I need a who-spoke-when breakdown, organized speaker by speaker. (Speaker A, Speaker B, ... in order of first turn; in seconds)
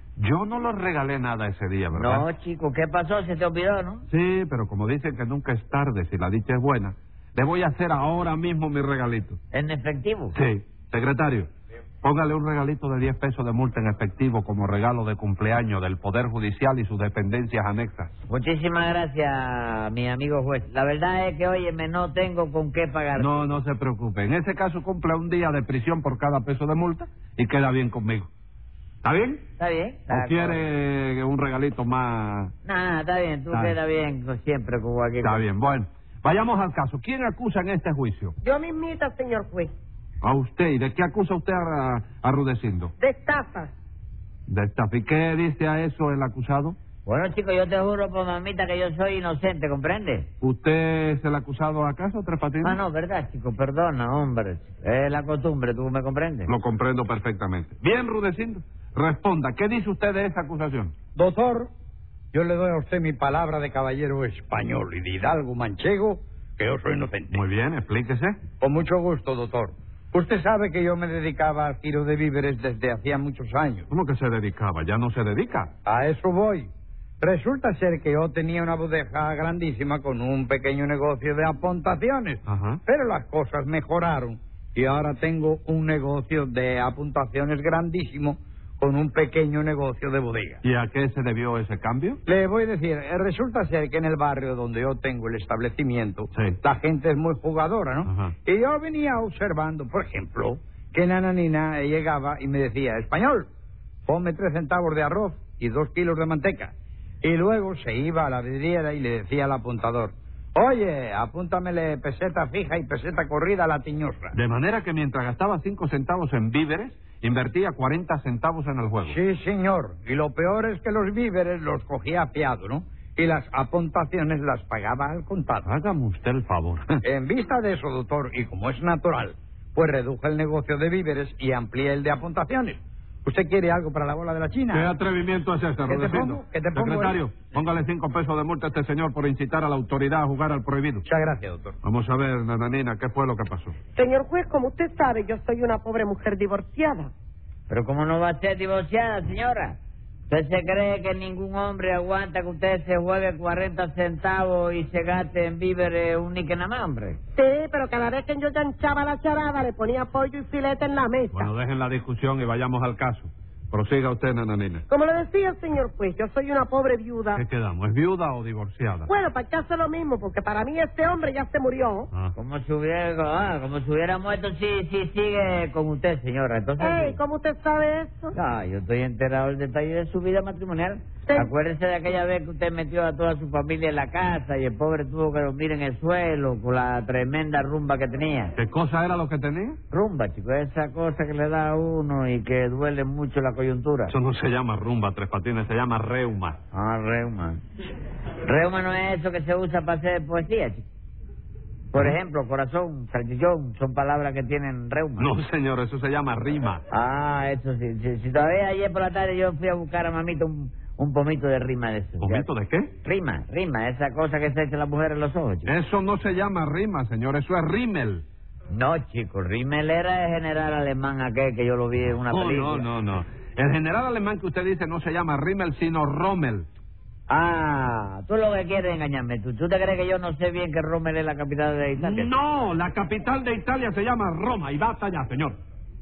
Speaker A: 0.2-2.3, 4.1-9.4, 10.3-11.5, 12.0-18.1, 23.1-28.3, 29.0-29.4, 30.1-32.5, 33.5-33.8, 35.2-38.3, 40.2-42.9, 44.5-46.8, 50.4-52.8, 56.5-60.9, 67.3-68.4, 73.9-75.7, 82.5-82.8, 90.6-92.2, 98.0-98.3, 114.3-119.2, 125.6-127.0, 134.7-141.0, 141.8-143.7, 161.3-164.8, 167.3-169.1, 188.6-189.8, 194.1-196.6, 205.2-206.8, 212.2-212.9, 215.6-218.2, 222.3-226.7, 232.0-235.6
Speaker B: 1.9-4.0, 9.5-10.3, 18.3-23.4, 29.6-30.6, 32.6-35.4, 47.0-50.3, 52.6-56.5, 147.7-149.8, 150.3-157.2, 172.3-177.2, 178.3-188.5, 189.9-194.1, 196.7-197.6, 198.4-200.8, 201.9-205.3, 206.9-212.5, 213.0-215.7, 218.7-222.9, 227.3-232.3
Speaker C: 38.4-39.7, 43.0-43.7, 143.9-147.1, 157.3-161.5, 164.9-167.4, 169.1-172.1, 176.8-178.3
Speaker D: 61.1-61.7, 62.3-67.4, 68.6-73.8, 75.8-90.6, 92.2-103.5, 104.1-114.3, 119.0-125.7, 127.0-134.9, 135.9-137.2, 141.1-141.7